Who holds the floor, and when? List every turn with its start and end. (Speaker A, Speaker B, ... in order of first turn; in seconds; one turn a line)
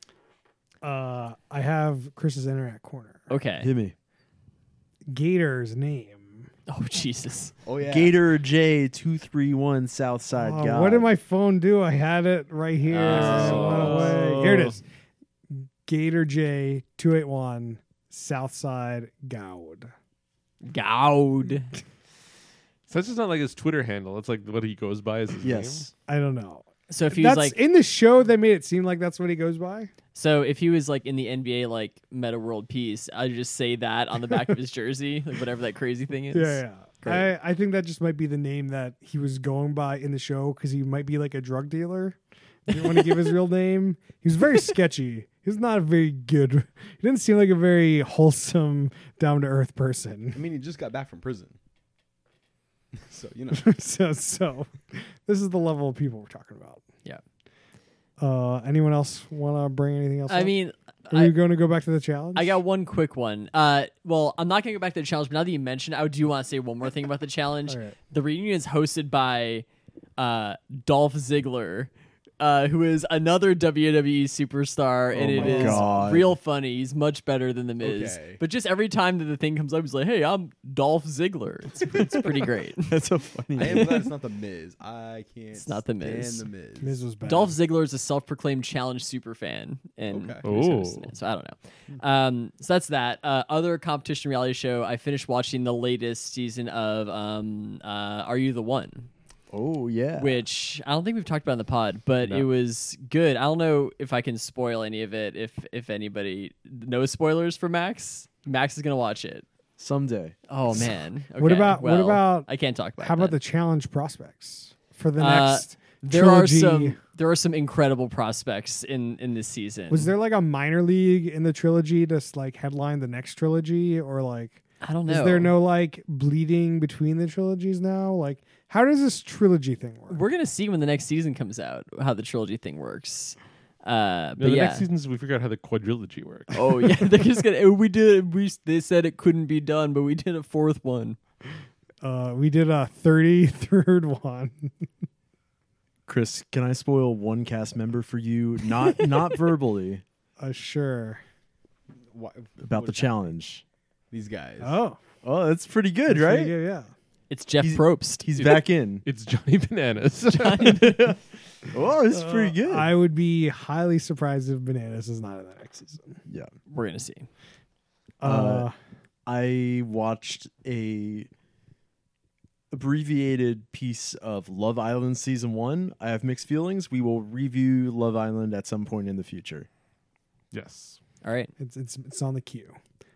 Speaker A: 0.8-3.3
Speaker B: 3.3-3.7
Speaker C: 3.6-3.9
Speaker A: 5.1-6.5
Speaker B: 6.7-7.5
Speaker D: 7.6-8.2
Speaker C: 7.8-11.1
Speaker A: 10.3-14.8
Speaker B: 12.9-14.1
Speaker E: 13.1-14.8
Speaker C: 13.1-13.8
Speaker A: 15.5-19.9
Speaker B: 20.6-21.7
Speaker E: 22.9-25.8
Speaker C: 25.4-25.9
Speaker A: 26.1-29.9
Speaker B: 26.9-27.6
Speaker B: 30.1-37.3
Speaker A: 36.3-50.4
Speaker D: 50.3-51.5
Speaker D: 53.1-53.7
Speaker A: 53.5-56.8
Speaker A: 58.2-60.5
Speaker B: 60.3-61.3
Speaker A: 61.1-62.6
Speaker B: 62.3-69.6
Speaker A: 67.7-68.0
Speaker B: 70.2-82.9
Speaker C: 75.1-76.3
Speaker A: 75.3-76.2
Speaker D: 77.8-78.4
Speaker C: 81.8-84.0
Speaker D: 83.5-87.0
Speaker B: 85.5-86.5
Speaker A: 86.8-87.6
Speaker B: 87.2-99.1
Speaker D: 90.1-90.4
Speaker E: 90.4-91.1
Speaker C: 99.5-100.4
Speaker B: 100.2-109.5
Speaker C: 109.8-110.3
Speaker B: 110.5-113.4
Speaker A: 111.4-112.5
Speaker A: 113.0-117.0
Speaker B: 115.2-120.1
Speaker A: 119.9-130.2
Speaker B: 124.8-125.5
Speaker B: 130.1-134.8
Speaker E: 134.4-136.9
Speaker B: 136.5-141.2
Speaker A: 142.0-144.7
Speaker C: 146.1-150.0
Speaker B: 148.8-149.4
Speaker A: 150.4-151.2
Speaker D: 152.1-153.1
Speaker C: 152.6-153.6
Speaker D: 154.1-154.8
Speaker A: 154.6-155.0
Speaker C: 155.2-156.5
Speaker A: 156.1-156.9
Speaker B: 157.3-158.6
Speaker C: 157.6-159.0
Speaker E: 159.0-161.1
Speaker B: 160.3-161.1
Speaker C: 161.7-162.9
Speaker A: 162.1-166.2
Speaker B: 166.7-167.3
Speaker A: 168.2-168.7
Speaker C: 168.2-168.7
Speaker C: 169.2-171.3
Speaker C: 172.7-179.7
Speaker E: 180.5-181.0
Speaker B: 181.2-181.5
Speaker A: 181.6-182.8